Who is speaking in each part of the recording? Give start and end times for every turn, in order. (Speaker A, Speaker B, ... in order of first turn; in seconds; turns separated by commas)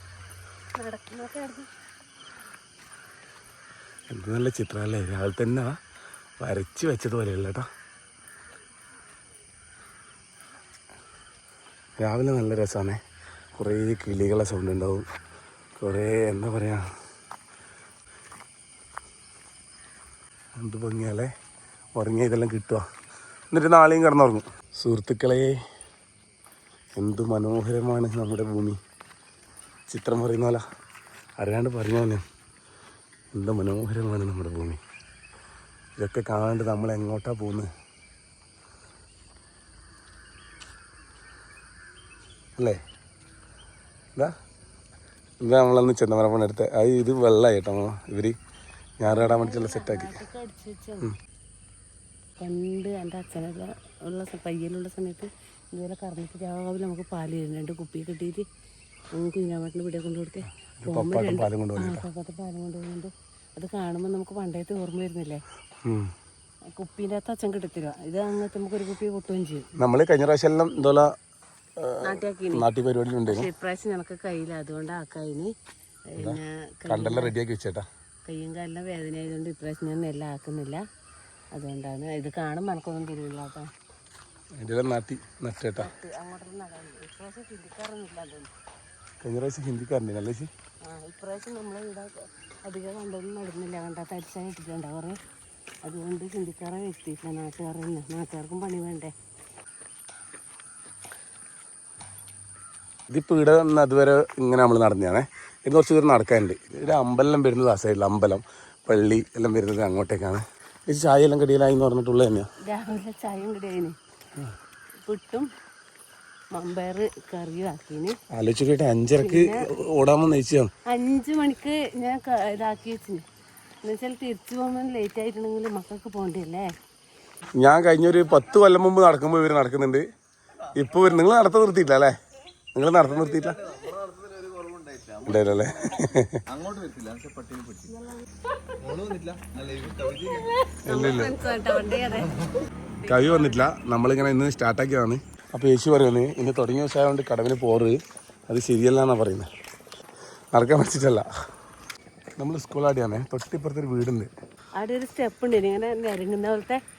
Speaker A: 0.8-1.7, Speaker B: 4.1-5.7, Speaker B: 6.4-7.6, Speaker B: 12.0-13.0, Speaker B: 13.6-15.0, Speaker B: 15.8-16.8, Speaker B: 20.6-21.3, Speaker B: 21.9-22.8, Speaker B: 23.5-25.5, Speaker B: 27.0-28.8, Speaker B: 29.9-30.6, Speaker B: 31.4-32.2, Speaker B: 33.3-34.8, Speaker B: 36.0-37.7, Speaker B: 45.4-48.3, Speaker B: 49.0-50.2, Speaker A: 49.1-51.1, Speaker A: 52.4-58.4, Speaker A: 59.1-65.4, Speaker B: 60.8-62.0, Speaker B: 65.8-66.1, Speaker A: 66.8-69.7, Speaker B: 69.8-71.1, Speaker B: 71.8-73.5, Speaker A: 72.0-72.7, Speaker A: 73.3-75.5, Speaker A: 76.1-77.3, Speaker B: 76.2-77.8, Speaker A: 78.2-80.8, Speaker A: 81.5-83.7, Speaker B: 84.6-85.9, Speaker A: 85.8-88.5, Speaker B: 89.2-90.5, Speaker A: 90.8-95.2, Speaker A: 95.8-99.1, Speaker B: 103.1-112.5, Speaker A: 112.6-113.9, Speaker A: 115.0-115.5, Speaker A: 116.5-118.1, Speaker B: 118.3-120.7, Speaker A: 119.2-119.6, Speaker A: 120.9-123.2, Speaker A: 123.8-126.7, Speaker B: 127.6-130.0, Speaker B: 130.7-132.1, Speaker B: 132.7-133.6, Speaker C: 133.6-135.4, Speaker B: 135.2-136.4, Speaker C: 136.5-137.9, Speaker C: 139.0-140.4, Speaker A: 140.1-143.7, Speaker B: 140.8-141.4, Speaker B: 143.1-148.0, Speaker B: 148.5-149.5, Speaker B: 150.5-151.2, Speaker B: 152.4-154.3, Speaker A: 154.8-156.8